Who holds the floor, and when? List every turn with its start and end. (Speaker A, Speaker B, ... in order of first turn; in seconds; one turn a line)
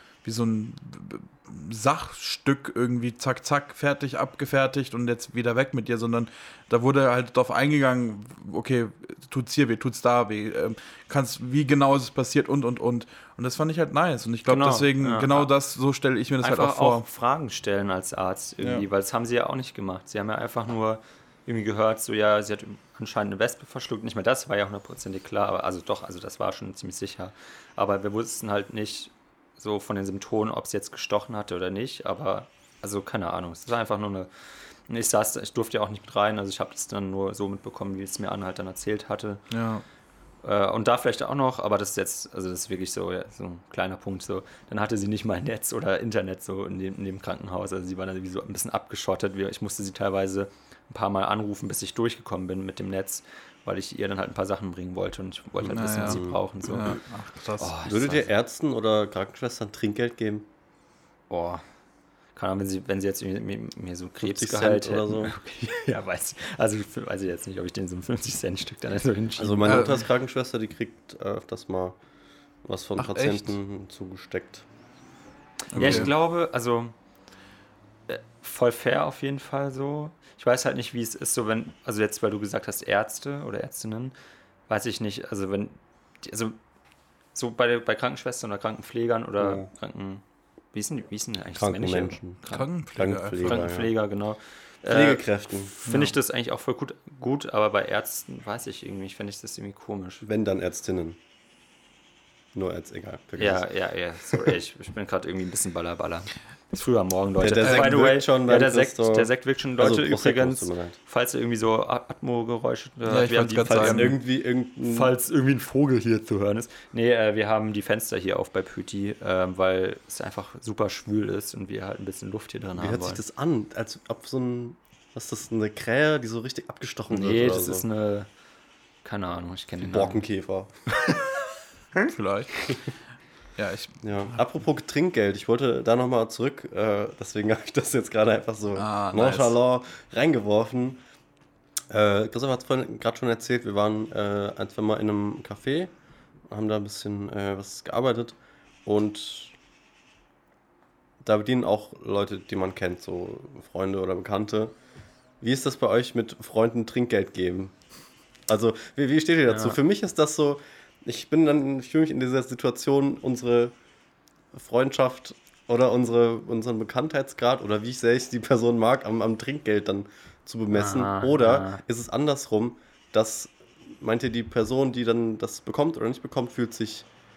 Speaker A: 0.2-17.0
Speaker B: 14.5-15.5
Speaker B: 16.4-39.4
Speaker A: 18.6-18.8
Speaker A: 39.5-39.8
Speaker B: 40.4-57.0
Speaker C: 55.6-56.4
Speaker A: 55.7-57.7
Speaker B: 57.6-58.3
Speaker C: 57.8-60.5
Speaker B: 61.3-61.6
Speaker B: 62.3-69.9
Speaker C: 64.2-65.3
Speaker C: 69.4-72.0
Speaker A: 69.7-70.0
Speaker C: 72.6-74.7
Speaker A: 73.0-73.5
Speaker B: 75.7-76.9
Speaker A: 75.7-76.1
Speaker C: 75.8-76.1
Speaker B: 78.1-84.1
Speaker B: 84.7-86.6
Speaker B: 87.3-90.2
Speaker C: 89.4-89.7
Speaker B: 90.7-92.7
Speaker C: 91.5-92.4
Speaker A: 92.5-93.7
Speaker C: 93.0-93.9
Speaker B: 93.4-100.2
Speaker C: 94.9-95.7
Speaker A: 95.8-96.1
Speaker C: 100.2-101.2
Speaker C: 102.5-103.6
Speaker B: 103.4-114.2
Speaker C: 107.4-111.0
Speaker A: 107.6-108.0
Speaker A: 113.1-114.2
Speaker C: 113.7-115.1
Speaker B: 114.8-123.2
Speaker C: 122.8-127.8
Speaker B: 127.1-128.3
Speaker B: 129.0-130.2
Speaker C: 129.8-130.7
Speaker A: 132.0-132.7
Speaker A: 133.6-134.3
Speaker C: 134.0-141.0
Speaker A: 138.8-139.5
Speaker C: 141.9-145.9
Speaker C: 146.5-149.6
Speaker C: 151.2-154.7
Speaker C: 155.4-157.8
Speaker C: 158.5-163.7
Speaker B: 159.5-159.8
Speaker C: 164.5-177.1
Speaker B: 170.7-171.8